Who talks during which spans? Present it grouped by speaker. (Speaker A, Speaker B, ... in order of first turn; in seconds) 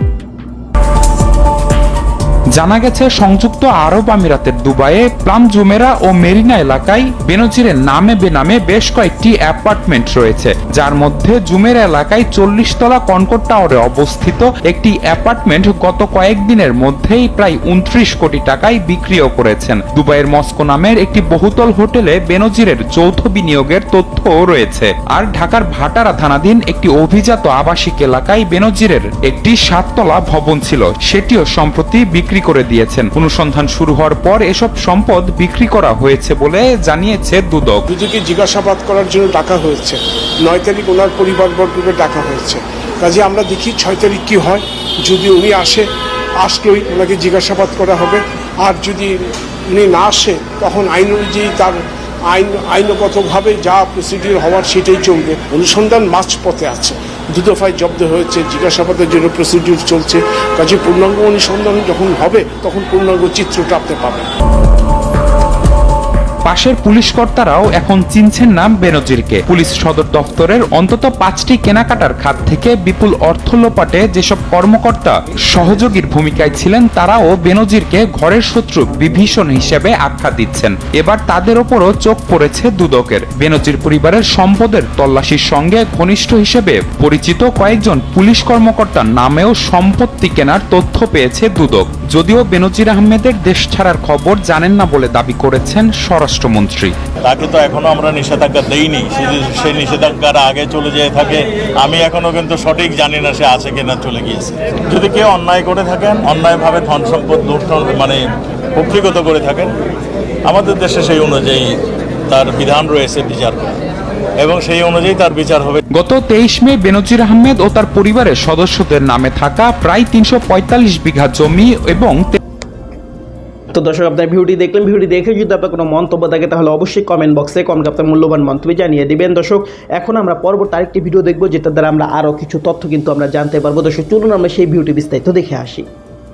Speaker A: 2.5-37.8, 66.5-96.9, 115.9-122.4
Speaker B: 37.9-45.8, 46.4-64.3
Speaker C: 97.2-108.2, 108.7-109.8, 110.5-111.7, 112.3-113.7, 114.4-115.8
Speaker D: 123.7-135.9